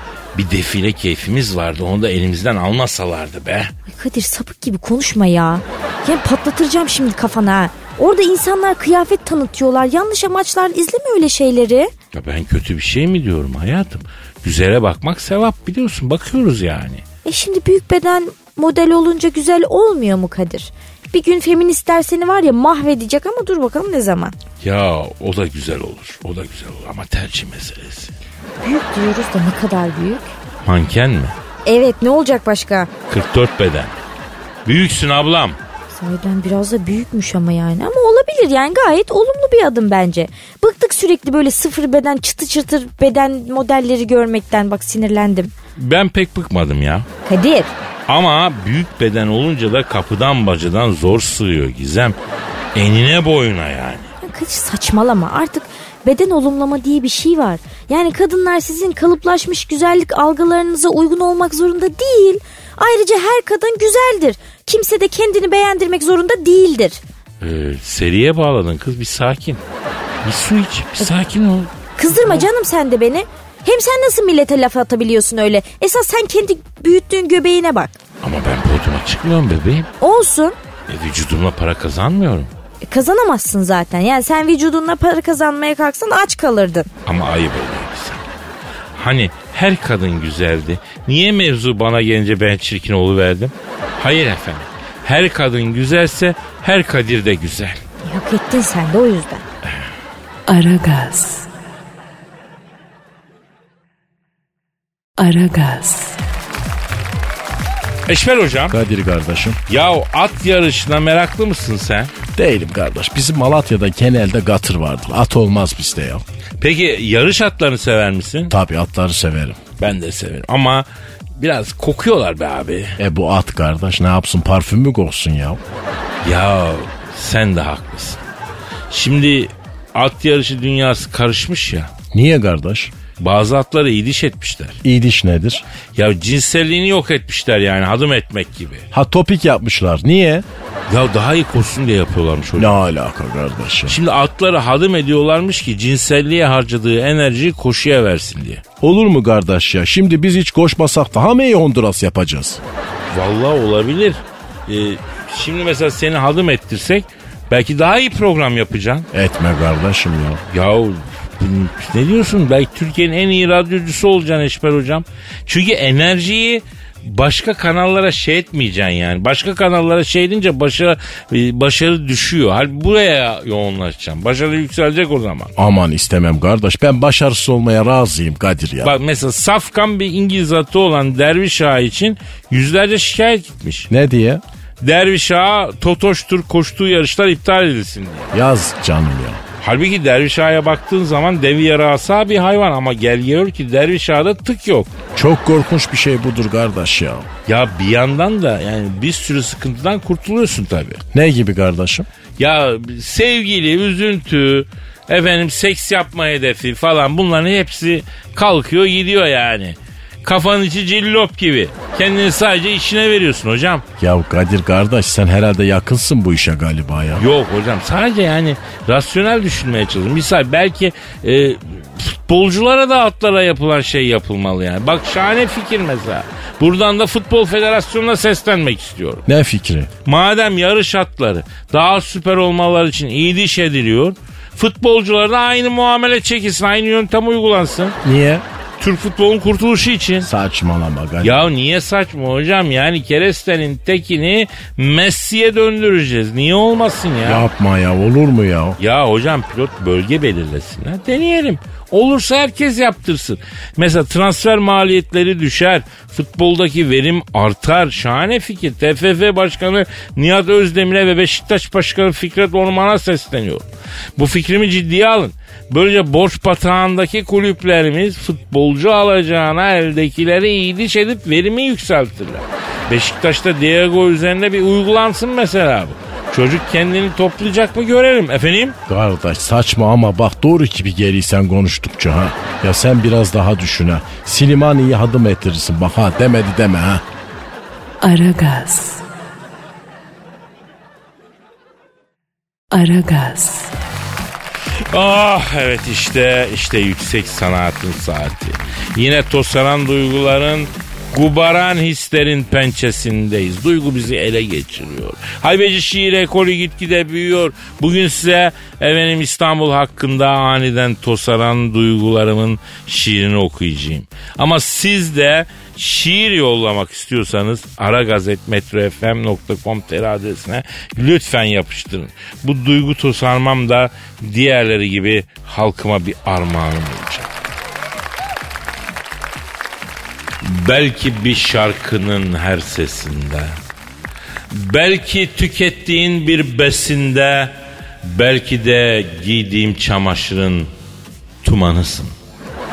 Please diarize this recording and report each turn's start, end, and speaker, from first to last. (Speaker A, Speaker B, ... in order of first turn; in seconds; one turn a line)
Speaker A: 0.3-3.7
Speaker B: 3.9-11.9
Speaker A: 12.1-17.0
Speaker B: 17.2-24.3
Speaker A: 24.6-28.1
Speaker B: 28.6-30.3
Speaker A: 30.6-31.3
Speaker B: 31.6-32.9
Speaker A: 33.1-33.9
Speaker A: 34.6-35.6
Speaker B: 35.9-45.5
Speaker A: 45.8-47.1
Speaker B: 47.2-47.7
Speaker A: 48.1-52.1
Speaker A: 52.7-54.1
Speaker B: 54.2-67.0
Speaker A: 67.4-69.6
Speaker A: 70.2-72.5
Speaker B: 72.0-78.0
Speaker A: 78.2-79.9
Speaker B: 80.0-80.6
Speaker A: 80.9-82.5
Speaker B: 82.8-86.9
Speaker A: 87.0-88.2
Speaker A: 88.9-97.8
Speaker B: 98.0-99.4
Speaker C: 100.5-101.5
Speaker C: 105.2-106.2
Speaker A: 108.0-108.8
Speaker D: 108.7-109.6
Speaker A: 109.7-112.1
Speaker D: 112.3-116.2
Speaker A: 116.6-118.5
Speaker D: 118.5-119.6
Speaker A: 119.8-120.8
Speaker A: 121.4-123.0
Speaker D: 123.0-125.6
Speaker A: 126.2-128.2
Speaker A: 128.9-131.9
Speaker D: 132.1-132.9
Speaker A: 133.2-134.8
Speaker D: 134.8-135.6
Speaker A: 135.9-138.8
Speaker D: 138.9-140.4
Speaker A: 140.9-142.8
Speaker D: 142.6-144.0
Speaker A: 143.9-148.6
Speaker D: 148.8-152.6
Speaker A: 153.1-159.1
Speaker D: 159.1-160.4
Speaker A: 160.5-175.5
Speaker D: 175.6-178.9
Speaker A: 178.8-183.9
Speaker D: 183.9-184.4
Speaker A: 184.8-188.3
Speaker D: 188.3-189.4
Speaker A: 189.6-194.9
Speaker D: 195.1-197.3
Speaker A: 197.5-201.0
Speaker D: 201.1-202.1
Speaker A: 202.4-213.8
Speaker D: 214.0-217.2
Speaker A: 217.2-229.2
Speaker D: 229.2-229.9
Speaker A: 230.0-238.0
Speaker D: 238.0-238.4
Speaker A: 238.8-240.3
Speaker D: 240.2-241.5
Speaker A: 241.2-247.5
Speaker D: 247.2-248.8
Speaker A: 248.8-278.8
Speaker D: 278.9-287.0
Speaker C: 288.0-289.0
Speaker C: 292.7-293.7
Speaker A: 294.9-327.3
Speaker A: 330.4-333.5
Speaker A: 334.5-340.7
Speaker A: 341.4-342.1